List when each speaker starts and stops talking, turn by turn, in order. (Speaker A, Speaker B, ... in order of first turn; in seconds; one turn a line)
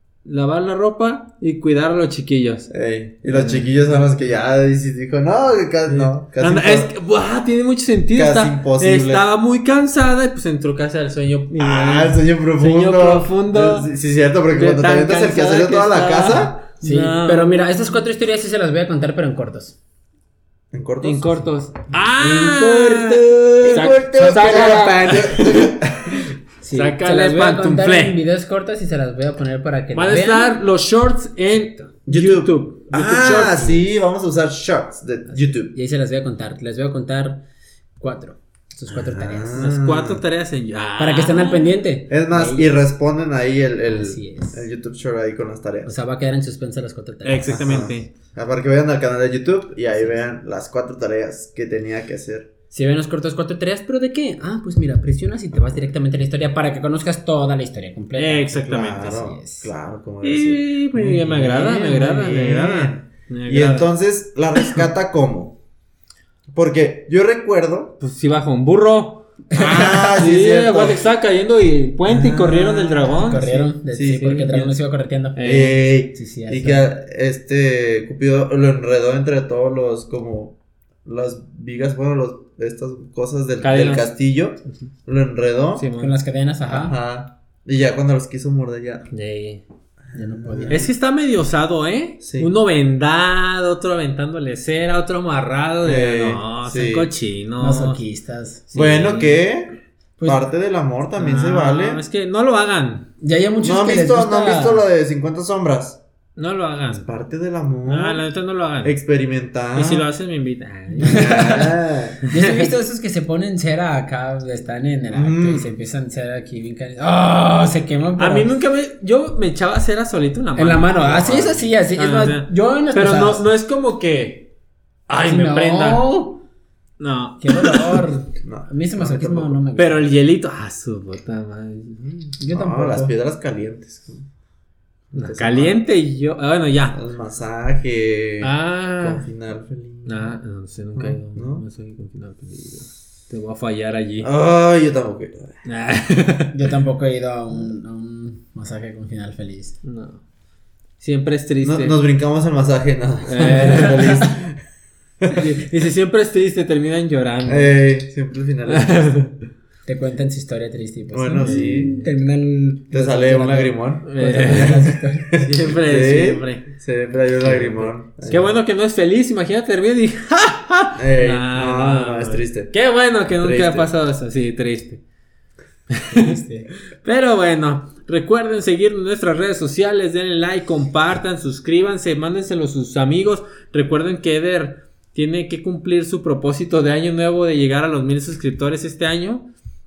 Speaker A: 0.2-2.7
Speaker B: 2.7-6.9
Speaker A: 3.2-4.2
Speaker A: 5.9-13.9
Speaker B: 8.1-9.3
Speaker B: 11.6-16.7
Speaker A: 14.5-17.9
Speaker C: 16.8-19.8
Speaker B: 20.7-21.4
Speaker A: 21.0-25.8
Speaker C: 22.2-25.1
Speaker B: 23.7-26.3
Speaker C: 26.6-30.6
Speaker A: 26.7-28.2
Speaker A: 29.9-33.9
Speaker B: 32.0-35.7
Speaker C: 35.4-37.4
Speaker C: 38.0-39.6
Speaker B: 38.7-40.2
Speaker A: 39.5-41.8
Speaker C: 41.0-43.0
Speaker B: 42.1-45.9
Speaker C: 43.8-44.7
Speaker C: 45.8-47.9
Speaker A: 47.2-48.1
Speaker B: 47.4-52.5
Speaker C: 49.9-50.2
Speaker C: 52.7-59.7
Speaker A: 58.1-59.0
Speaker B: 58.6-65.6
Speaker A: 60.2-63.9
Speaker B: 66.5-68.0
Speaker A: 68.0-69.4
Speaker B: 69.5-71.0
Speaker C: 69.5-70.1
Speaker A: 70.1-74.7
Speaker B: 72.1-73.2
Speaker C: 73.1-75.5
Speaker B: 73.9-74.7
Speaker A: 75.3-75.8
Speaker B: 75.4-85.9
Speaker C: 76.0-76.9
Speaker A: 83.6-84.1
Speaker A: 85.8-86.2
Speaker C: 86.0-87.0
Speaker B: 86.6-89.1
Speaker A: 89.1-89.6
Speaker B: 90.1-90.8
Speaker C: 90.1-90.9
Speaker A: 90.7-98.0
Speaker B: 92.2-92.5
Speaker B: 95.8-97.1
Speaker C: 97.6-98.7
Speaker A: 98.7-99.4
Speaker B: 98.7-102.0
Speaker C: 100.2-100.4
Speaker A: 101.2-103.1
Speaker C: 103.2-104.8
Speaker B: 103.6-106.0
Speaker A: 106.3-107.1
Speaker B: 106.9-108.2
Speaker A: 107.9-109.0
Speaker B: 108.8-110.0
Speaker A: 109.8-111.3
Speaker C: 111.0-111.8
Speaker B: 111.0-112.2
Speaker A: 112.2-112.7
Speaker C: 112.3-118.5
Speaker B: 115.1-115.7
Speaker A: 118.2-121.0
Speaker C: 120.5-123.5
Speaker B: 121.0-121.7
Speaker A: 121.9-124.5
Speaker A: 125.1-126.0
Speaker C: 125.2-126.4
Speaker A: 127.0-128.1
Speaker C: 127.4-130.1
Speaker B: 128.4-129.6
Speaker A: 129.8-132.3
Speaker C: 132.4-133.1
Speaker B: 132.5-134.2
Speaker B: 135.1-135.8
Speaker A: 135.1-137.0
Speaker B: 136.9-140.3
Speaker A: 138.4-139.3
Speaker A: 140.1-144.3
Speaker B: 140.9-141.6
Speaker B: 144.2-145.6
Speaker A: 145.6-146.6
Speaker C: 146.5-149.8
Speaker A: 149.8-150.2
Speaker A: 151.0-152.0
Speaker B: 151.6-154.6
Speaker A: 153.2-154.2
Speaker C: 153.7-154.3
Speaker A: 155.3-157.8
Speaker B: 157.5-159.1
Speaker A: 158.7-159.4
Speaker C: 159.8-165.3
Speaker B: 161.1-162.0
Speaker A: 161.4-162.1
Speaker B: 162.9-168.6
Speaker A: 164.0-166.7
Speaker A: 167.4-175.0
Speaker B: 170.9-172.7
Speaker B: 173.3-173.9
Speaker A: 175.9-176.4
Speaker C: 176.1-176.7
Speaker A: 177.0-189.4